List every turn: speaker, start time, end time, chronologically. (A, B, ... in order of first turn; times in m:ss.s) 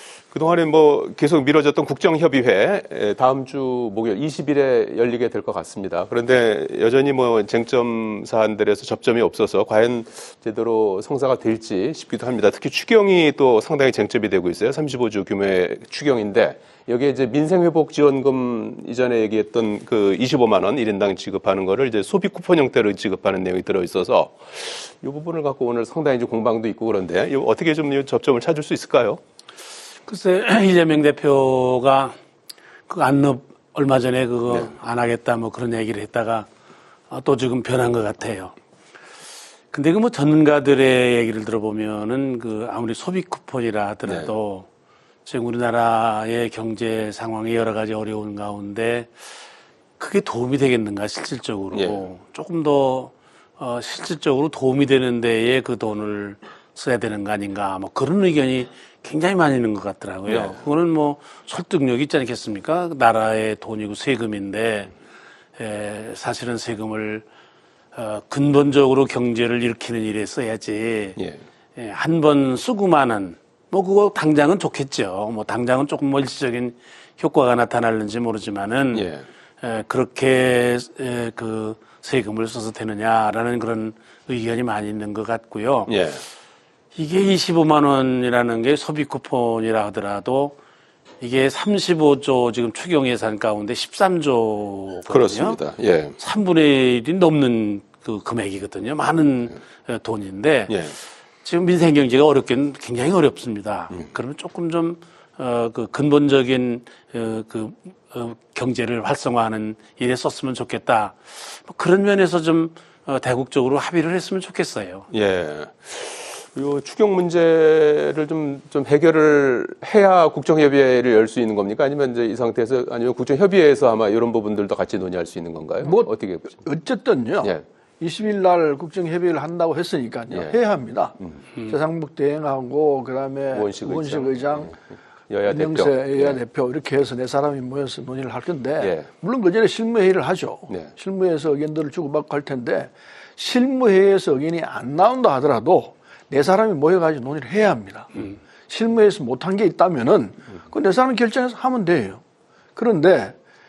0:00.3-0:29.2 A
0:30.1-0:32.1 B
0:32.9-0:36.5 B
0:37.1-0:38.5 B
0:39.7-0:44.7 B
0:44.1-0:44.3 A
0:45.2-0:49.1 B
0:50.0-1:04.9 B
0:51.7-0:52.1 A
1:00.3-1:00.6 A
1:05.6-1:07.2 B
1:07.9-1:11.2 B
1:11.2-1:11.4 A
1:11.8-1:19.1 B
1:18.9-1:19.2 A
1:19.6-1:25.9 B
1:25.9-1:26.2 A
1:26.9-1:30.6 B
1:31.2-1:35.6 B
1:35.1-1:36.2 A
1:36.2-1:40.8 B
1:40.7-1:41.0 A
1:41.4-1:55.1 B
1:55.1-2:06.6 A
2:05.8-2:14.7 C
2:10.3-2:10.6 A
2:13.5-2:14.8 A
2:15.3-2:16.4 A
2:15.5-2:32.2 C
2:18.8-2:19.1 A
2:32.8-2:33.3 C